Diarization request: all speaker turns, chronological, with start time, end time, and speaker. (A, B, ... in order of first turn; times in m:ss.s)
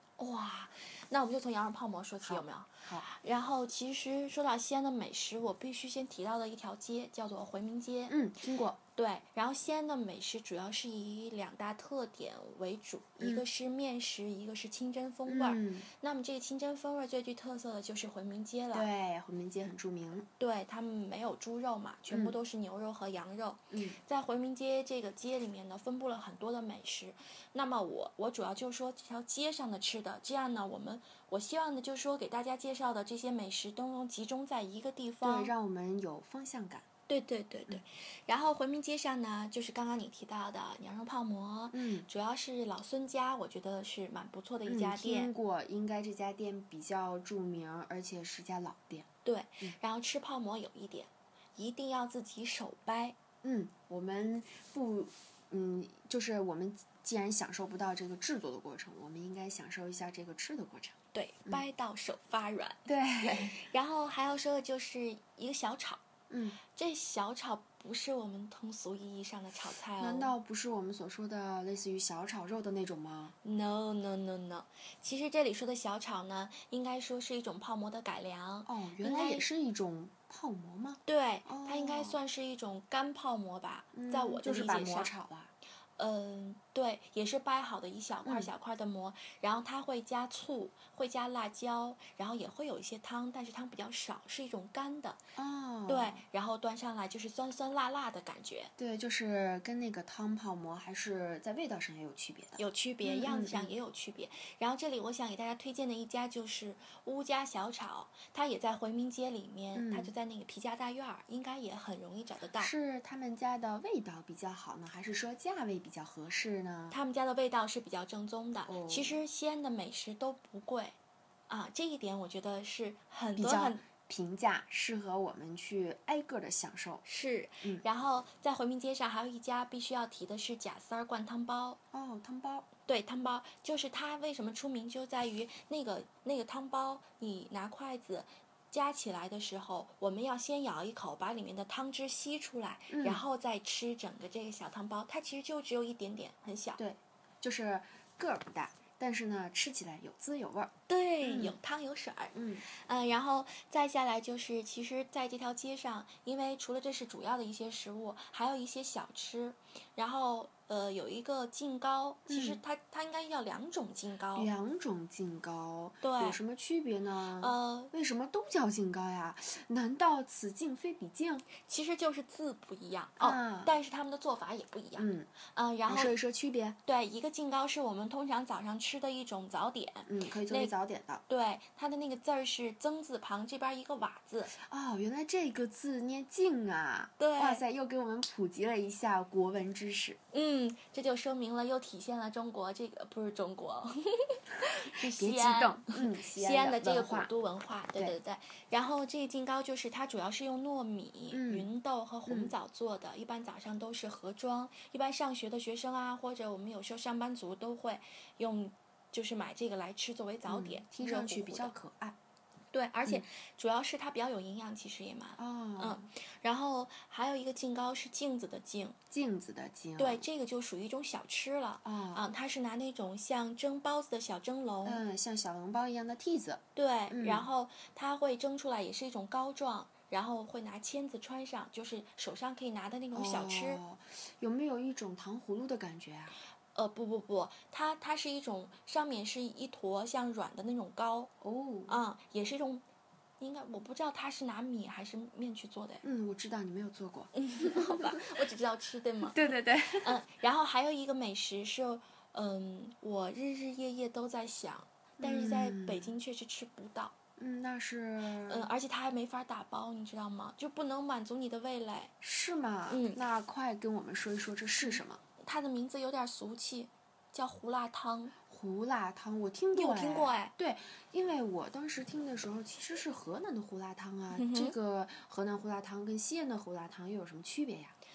0:00.2-0:08.2 A
0:02.2-0:03.1 B
0:08.1-0:08.8 B
0:09.0-0:18.9 A
0:13.2-0:13.4 B
0:15.2-0:15.9 B
0:18.7-0:20.2 B
0:20.4-0:35.5 A
0:22.1-0:22.4 B
0:23.7-0:24.0 B
0:35.2-0:36.8 B
0:37.1-0:45.3 A
0:41.7-0:42.1 B
0:44.6-0:49.1 B
0:49.2-0:53.2 A
0:53.4-1:01.0 B
1:01.1-1:06.0 A
1:02.9-1:03.6 B
1:06.3-1:06.6 B
1:06.7-1:10.3 A
1:10.0-1:13.3 B
1:13.4-1:19.5 A
1:18.6-1:22.2 B
1:21.1-1:25.1 A
1:23.9-1:25.5 B
1:26.0-1:35.2 A
1:28.2-1:28.5 B
1:35.4-1:36.2 B
1:35.9-1:38.7 A
1:38.8-1:43.7 B
1:42.6-1:52.7 A
1:49.7-1:50.1 B
1:52.6-1:57.0 B
1:56.9-2:00.9 A
1:58.6-1:59.2 B
2:01.5-2:03.8 A
2:03.4-2:07.0 B
2:07.0-2:11.8 A
2:11.9-2:12.7 B
2:12.9-2:26.8 A
2:22.9-2:23.2 B
2:26.8-2:30.7 B
2:30.9-2:44.5 A
2:31.2-2:31.6 B
2:32.3-2:32.6 B
2:42.3-2:42.6 B
2:44.3-2:51.4 B
2:46.0-2:46.4 A
2:47.4-2:47.9 A
2:51.6-2:56.2 A
2:53.2-2:53.7 B
2:55.0-2:55.3 B
2:55.9-2:56.8 B
2:56.8-3:00.7 A
3:00.1-3:01.2 B
3:01.3-3:04.5 A
3:04.6-3:10.2 B
3:07.2-3:07.6 A
3:10.3-3:31.7 A
3:15.0-3:17.3 B
3:21.3-3:21.7 B
3:22.3-3:22.5 B
3:30.4-3:32.2 B
3:32.7-3:39.0 A
3:35.4-3:36.1 B
3:39.1-3:40.2 B
3:40.0-3:45.0 A
3:41.8-3:42.2 B
3:44.8-3:47.5 B
3:46.8-3:53.8 A
3:53.1-3:56.4 B
3:56.7-4:01.3 A
4:01.4-4:02.0 B
4:01.9-4:02.8 A
4:03.4-4:06.0 A
4:06.0-4:08.2 B
4:07.3-4:17.1 A
4:09.3-4:10.2 B
4:15.2-4:16.1 B
4:17.4-4:18.7 B
4:18.5-4:22.1 A
4:22.2-4:25.2 B
4:22.9-4:23.2 A
4:24.8-4:28.3 A
4:28.5-4:37.9 B
4:29.7-4:30.5 A
4:34.3-4:34.7 A